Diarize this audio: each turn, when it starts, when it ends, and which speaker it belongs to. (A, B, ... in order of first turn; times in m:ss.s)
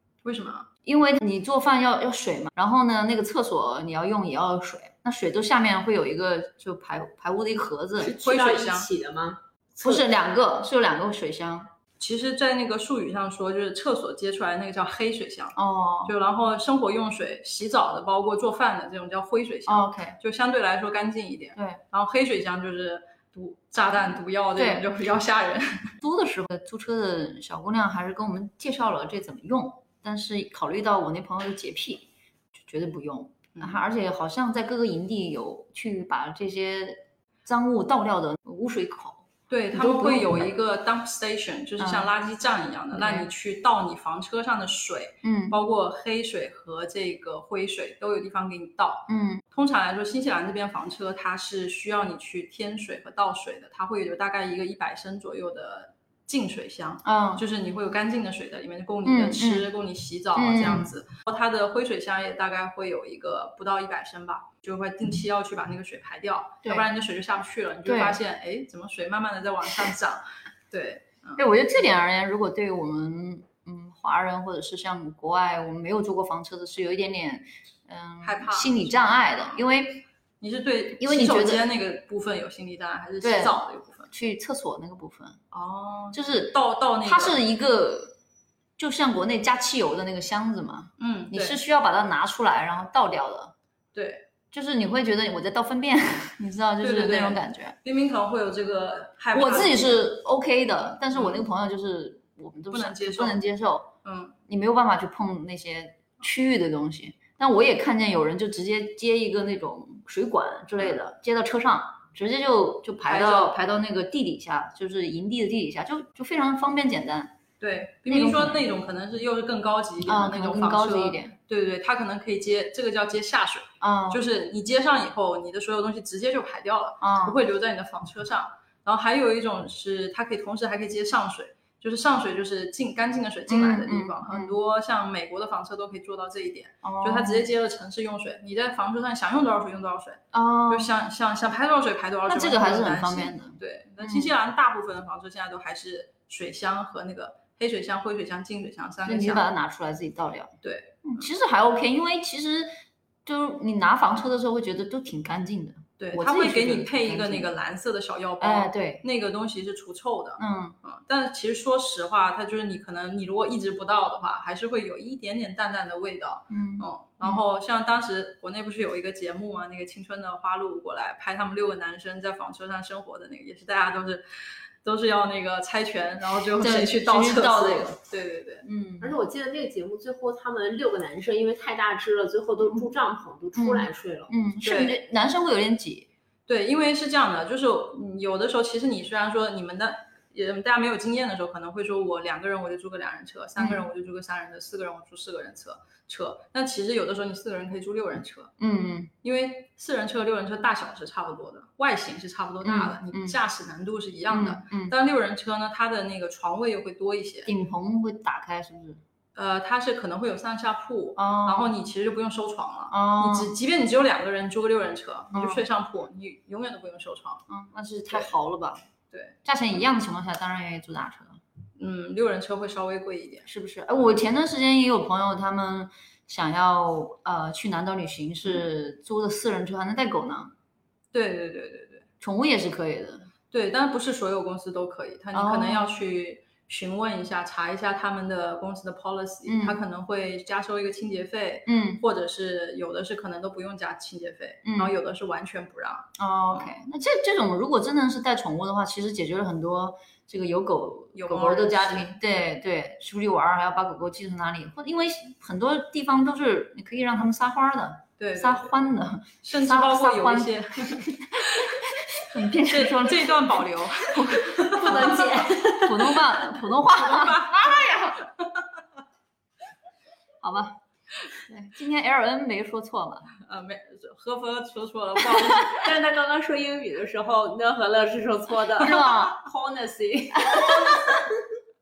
0:00.2-0:00.7 A
0:00.8-0:08.2 B
0:08.0-0:10.0 C
0:08.1-0:08.9 A
0:09.8-0:11.7 B
0:12.0-0:25.9 A
0:15.6-0:16.1 B
0:19.7-0:20.2 B
0:21.6-0:21.8 B
0:24.6-0:24.8 B
0:26.0-0:40.5 B
0:33.5-0:33.8 A
0:39.5-1:11.4 A
0:41.8-0:42.1 B
0:42.9-0:43.3 B
0:45.2-0:45.6 B
0:49.1-0:49.4 B
0:57.0-0:57.4 B
0:59.0-0:59.7 B
1:00.3-1:00.9 B
1:07.8-1:08.2 B
1:11.4-1:20.0 B
1:18.2-1:19.6 A
1:20.4-1:24.1 A
1:21.0-1:21.6 B
1:23.2-1:23.6 B
1:24.1-1:25.4 B
1:25.5-1:27.4 A
1:26.1-1:28.1 B
1:28.8-1:33.5 B
1:31.0-1:31.6 A
1:33.9-1:34.2 A
1:34.5-1:37.8 B
1:36.8-1:40.0 A
1:39.3-1:43.9 B
1:41.1-1:41.4 A
1:42.7-1:43.4 A
1:44.0-1:44.3 A
1:44.5-1:57.3 B
1:53.1-1:53.5 A
1:57.6-2:29.4 A
1:58.1-1:58.6 B
2:00.0-2:01.3 B
2:03.8-2:04.2 B
2:07.0-2:07.4 B
2:13.5-2:14.6 B
2:16.8-2:17.4 B
2:20.3-2:20.9 B
2:22.3-2:24.3 B
2:29.0-2:30.5 B
2:30.6-2:31.3 A
2:31.0-2:32.7 B
2:33.2-2:37.5 B
2:36.0-2:54.2 A
2:38.4-2:39.0 B
2:40.4-2:40.8 B
2:46.5-2:47.4 B
2:54.8-2:58.6 A
2:56.6-2:58.0 B
2:58.6-2:59.2 B
2:59.0-3:04.3 C
3:03.6-3:06.1 B
3:04.6-3:05.0 A
3:06.5-3:18.5 A
3:13.6-3:13.8 B
3:18.6-3:19.1 B
3:19.2-3:27.5 A
3:22.6-3:23.4 B
3:24.3-3:24.9 B
3:27.5-3:29.0 B
3:29.3-3:37.4 A
3:31.2-3:31.7 B
3:32.9-3:33.5 B
3:35.3-3:35.6 B
3:37.5-3:38.8 B
3:39.1-3:39.4 A
3:39.4-3:41.4 B
3:41.8-3:44.2 A
3:43.5-3:50.5 B
3:51.1-3:52.0 A
3:52.2-3:53.3 B
3:53.5-4:06.7 A
3:55.3-3:55.9 B
3:59.4-3:59.8 B
4:01.7-4:02.0 B
4:04.6-4:04.9 B
4:06.2-4:28.2 B
4:11.1-4:12.2 A
4:18.2-4:18.7 A
4:19.4-4:21.8 A
4:22.6-4:25.4 A
4:24.6-4:26.2 C
4:26.9-4:28.7 A
4:30.4-4:30.8 B
4:31.5-4:33.3 B
4:33.4-4:35.8 A
4:35.6-4:41.3 C
4:38.8-4:39.4 B
4:40.4-4:41.2 B